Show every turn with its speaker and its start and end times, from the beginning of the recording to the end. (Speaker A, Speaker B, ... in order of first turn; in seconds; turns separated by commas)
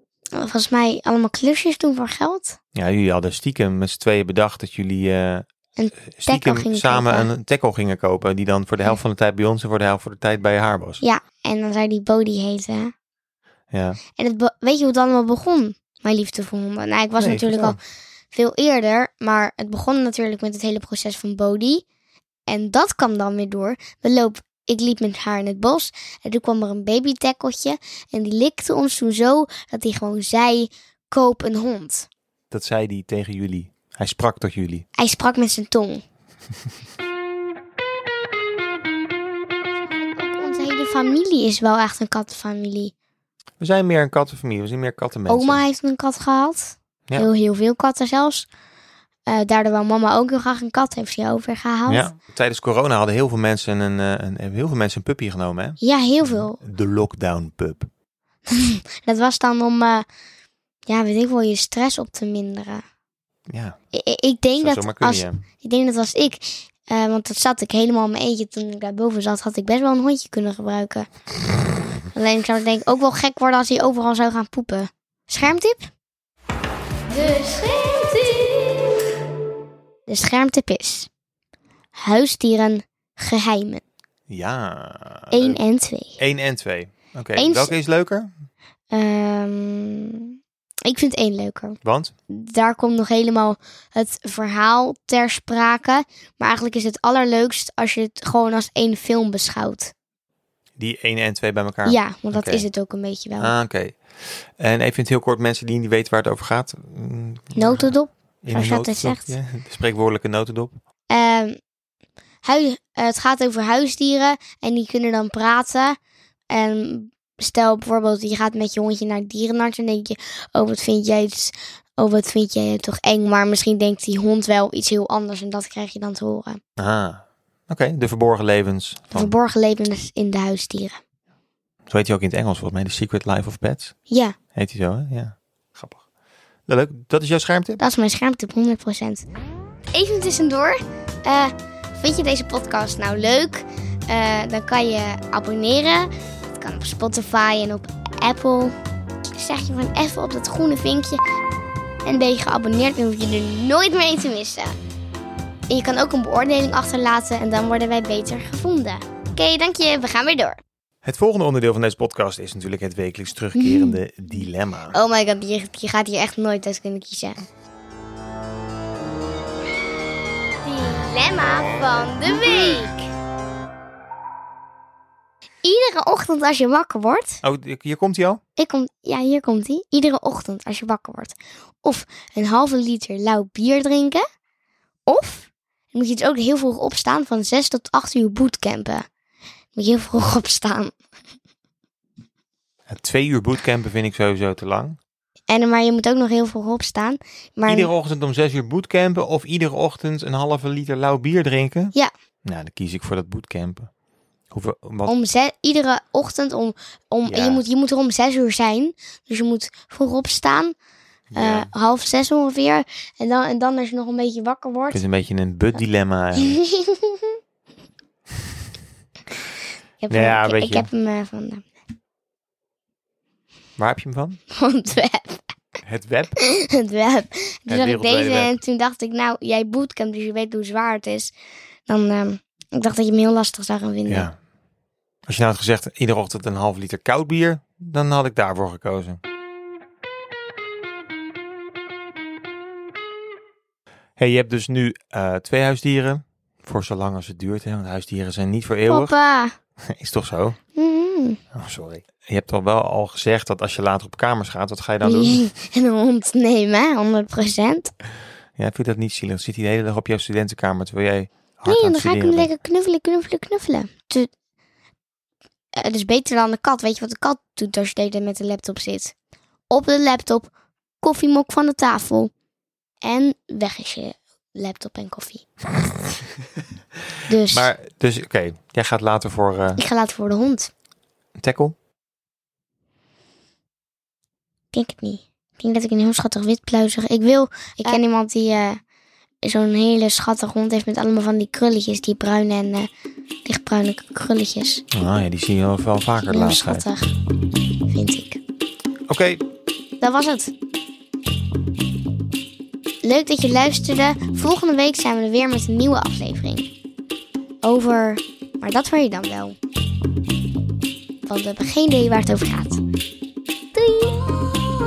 Speaker A: 0.3-2.6, Speaker B: 2.8-5.5, Speaker A: 5.8-7.3, Speaker B: 6.1-11.0, Speaker A: 11.0-12.9, Speaker B: 13.7-14.0, Speaker A: 14.2-17.8, Speaker B: 17.2-17.8, Speaker A: 18.3-21.9, Speaker A: 22.5-32.1, Speaker B: 32.5-34.8, Speaker A: 35.0-36.0, Speaker A: 40.0-42.9, Speaker B: 43.6-45.6, Speaker A: 45.3-48.5, Speaker A: 49.3-52.1, Speaker B: 51.9-57.9, Speaker A: 55.8-56.6, Speaker A: 58.5-60.1, Speaker A: 60.9-62.8, Speaker B: 63.5-63.8, Speaker A: 63.9-71.1, Speaker B: 64.6-65.4, Speaker A: 72.1-75.9, Speaker A: 77.1-78.7, Speaker A: 80.1-81.1, Speaker A: 82.0-83.8, Speaker B: 84.3-85.6, Speaker A: 85.3-86.2, Speaker B: 86.2-88.3, Speaker A: 87.4-87.8, Speaker A: 88.9-90.3, Speaker A: 90.9-91.8, Speaker B: 91.8-92.1, Speaker A: 92.3-99.9, Speaker B: 100.8-102.7, Speaker A: 101.8-103.5, Speaker B: 103.4-110.7, Speaker A: 107.5-109.4, Speaker A: 111.1-111.6, Speaker A: 112.4-116.0, Speaker A: 116.5-126.6, Speaker B: 126.8-129.3, Speaker A: 129.1-131.0, Speaker B: 131.9-133.9, Speaker A: 134.1-134.4, Speaker B: 134.6-136.0, Speaker B: 136.7-137.8, Speaker A: 137.8-139.2, Speaker A: 139.9-148.7, Speaker A: 149.3-151.2, Speaker A: 152.1-154.7, Speaker A: 155.7-160.6, Speaker B: 161.0-165.0, Speaker A: 163.6-164.0, Speaker A: 164.9-167.4, Speaker A: 170.6-173.1, Speaker A: 175.6-177.4, Speaker B: 177.4-178.4, Speaker A: 178.6-184.2, Speaker A: 185.1-189.1, Speaker A: 189.8-190.9, Speaker B: 192.9-195.0, Speaker A: 195.5-197.9, Speaker B: 197.7-201.9, Speaker B: 202.4-203.9, Speaker B: 204.5-205.1, Speaker A: 205.1-210.8, Speaker B: 207.2-207.6, Speaker B: 211.3-211.7, Speaker A: 211.3-215.0, Speaker B: 214.9-216.6, Speaker A: 216.4-217.3, Speaker A: 220.0-221.7, Speaker B: 220.1-220.9, Speaker B: 223.8-224.4, Speaker A: 224.5-225.4, Speaker B: 225.8-226.4, Speaker A: 226.4-231.3, Speaker B: 227.7-228.6, Speaker A: 231.9-234.3, Speaker B: 234.1-234.3, Speaker B: 235.3-239.2, Speaker B: 244.2-249.1, Speaker A: 248.9-249.6, Speaker B: 249.8-250.6, Speaker A: 250.8-251.4, Speaker B: 251.5-255.5, Speaker A: 255.0-257.9, Speaker B: 258.6-262.5, Speaker A: 261.7-264.3, Speaker A: 265.8-269.1, Speaker A: 269.7-272.3, Speaker A: 273.0-275.5, Speaker A: 277.3-277.7, Speaker B: 277.5-279.8, Speaker A: 279.8-280.7, Speaker B: 281.4-281.8, Speaker A: 284.7-288.8, Speaker A: 289.4-292.9, Speaker A: 293.4-294.8, Speaker B: 294.9-296.9, Speaker A: 296.3-297.1, Speaker A: 297.9-298.4, Speaker B: 299.1-299.4, Speaker A: 300.0-300.5, Speaker A: 303.0-306.7, Speaker A: 307.6-309.6, Speaker A: 311.3-312.8, Speaker A: 313.8-314.1